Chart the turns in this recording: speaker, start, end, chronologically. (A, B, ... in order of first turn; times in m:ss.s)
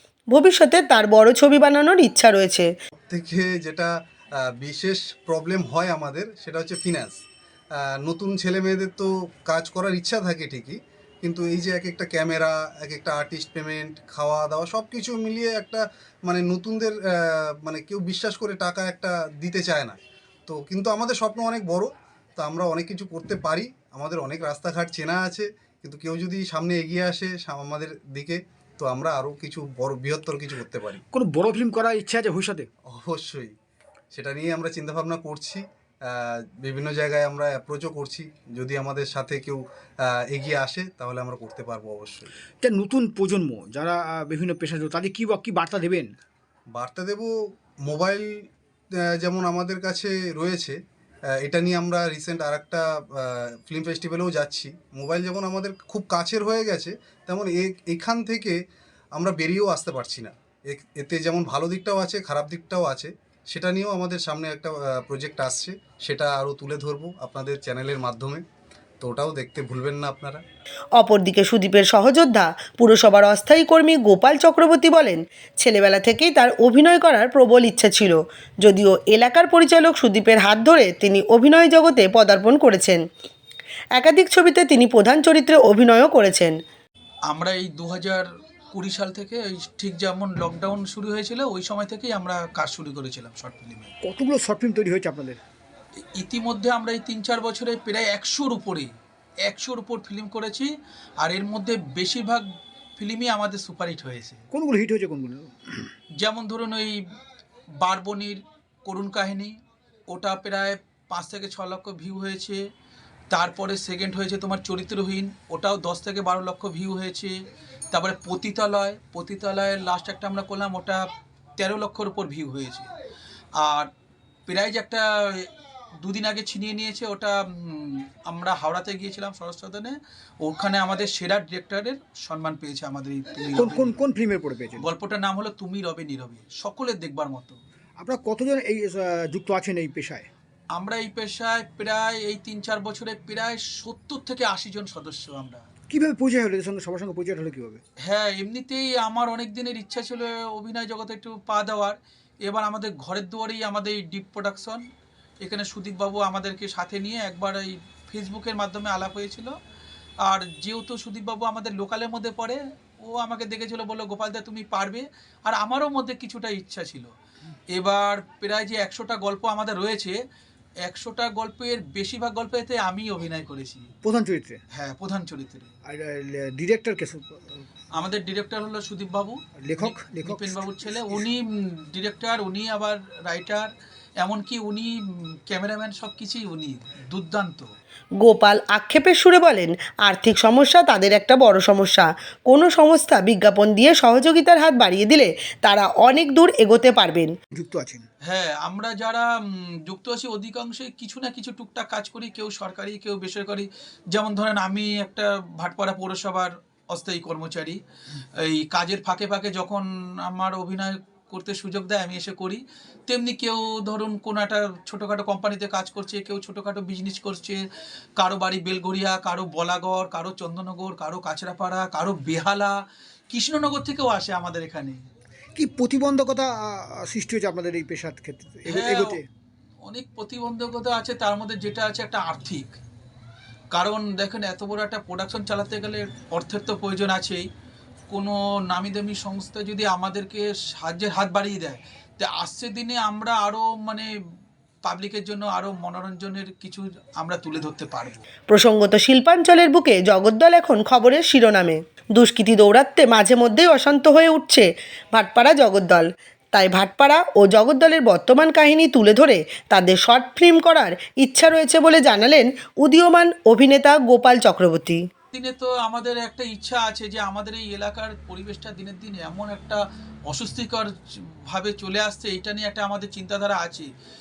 0:00.3-0:02.7 A
0:03.0-0:07.2 B
0:07.8-0:31.0 B
0:31.1-0:32.7 C
0:32.9-0:33.5 B
0:34.1-0:42.3 B
0:42.6-0:46.1 C
0:46.7-0:47.3 B
0:47.8-0:48.5 B
0:49.0-0:50.8 B
0:51.4-0:58.6 B
0:59.2-1:08.4 B
1:09.0-1:10.4 B
1:11.0-1:23.0 A
1:24.0-1:26.5 A
1:27.3-1:33.9 D
1:34.0-1:35.4 C
1:36.2-1:38.9 D
1:39.5-1:42.5 D
1:43.0-1:44.4 D
1:44.5-1:45.9 C
1:46.2-1:47.0 D
1:47.8-1:49.6 D
1:50.1-1:52.6 D
1:53.3-1:57.4 D
1:57.9-2:02.9 D
2:03.6-2:03.9 D
2:04.5-2:13.9 D
2:13.5-2:14.8 C
2:14.8-2:17.6 D
2:18.0-2:20.3 C
2:20.7-2:25.6 D
2:25.9-2:27.8 C
2:28.1-2:34.8 D
2:35.4-2:39.6 D
2:40.2-2:47.1 D
2:47.7-2:50.2 D
2:50.8-2:53.9 D
2:54.0-2:54.6 C
2:54.7-2:55.7 D
2:55.9-2:57.6 C
2:58.0-3:05.0 D
2:59.6-3:01.3 C
3:05.5-3:07.7 D
3:08.2-3:17.3 A
3:17.5-3:18.0 C
3:18.3-3:27.8 D
3:28.4-3:37.6 D
3:38.2-3:45.0 D
3:45.6-3:49.3 C
3:48.7-3:49.2 D
3:49.8-3:52.8 D
3:53.7-3:57.5 D
3:58.1-4:04.1 D
4:04.8-4:08.2 D
4:08.5-4:25.0 A
4:25.3-4:33.9 D